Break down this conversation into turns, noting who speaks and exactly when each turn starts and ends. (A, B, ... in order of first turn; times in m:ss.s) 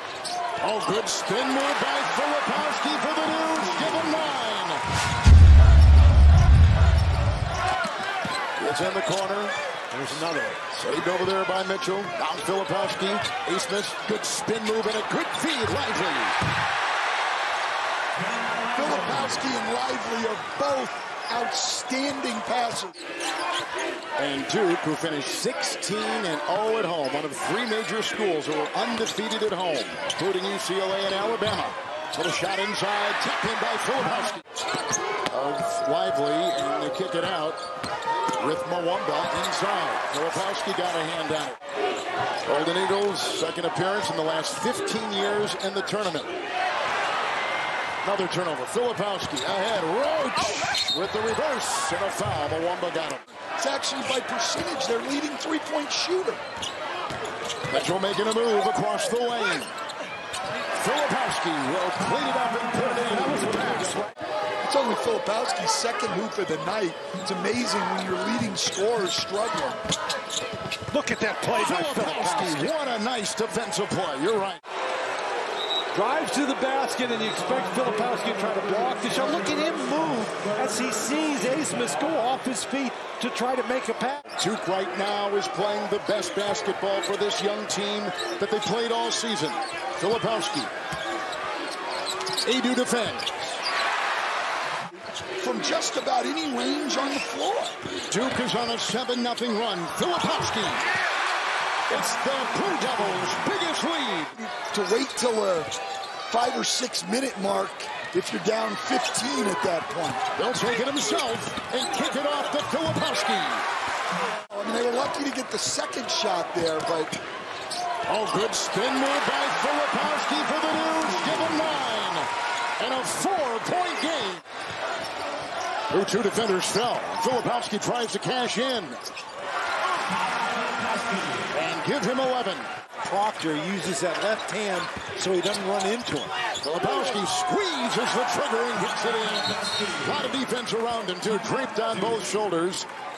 0:00.6-0:04.8 A
0:08.6-0:10.0 A
0:10.0-0:10.6 B
0:10.6-0:16.4 A
0:18.7-0:22.9 C
0:24.2-0:34.4 A
0:35.3-0:37.6 A
0:38.4-0:41.6 A
0:42.4-0:46.3 A
0:48.0-0:53.2 A
0:53.6-0:56.4 C
0:57.7-0:59.7 A
1:00.8-1:04.0 A
1:03.0-1:04.1 B
1:04.6-1:09.8 C
1:10.9-1:12.7 B
1:11.5-1:14.6 A
1:15.9-1:24.2 B
1:24.4-1:30.7 A
1:32.4-1:33.5 A
1:35.4-1:37.8 C
1:38.1-1:40.9 A
1:41.9-1:44.3 A
1:44.4-1:45.7 C
1:46.3-1:50.2 C
1:50.4-1:53.6 A
1:54.5-1:57.2 C
1:58.1-2:04.4 A
2:05.9-2:09.0 A
2:11.5-2:12.7 A
2:13.0-2:16.3 B
2:16.6-2:22.9 A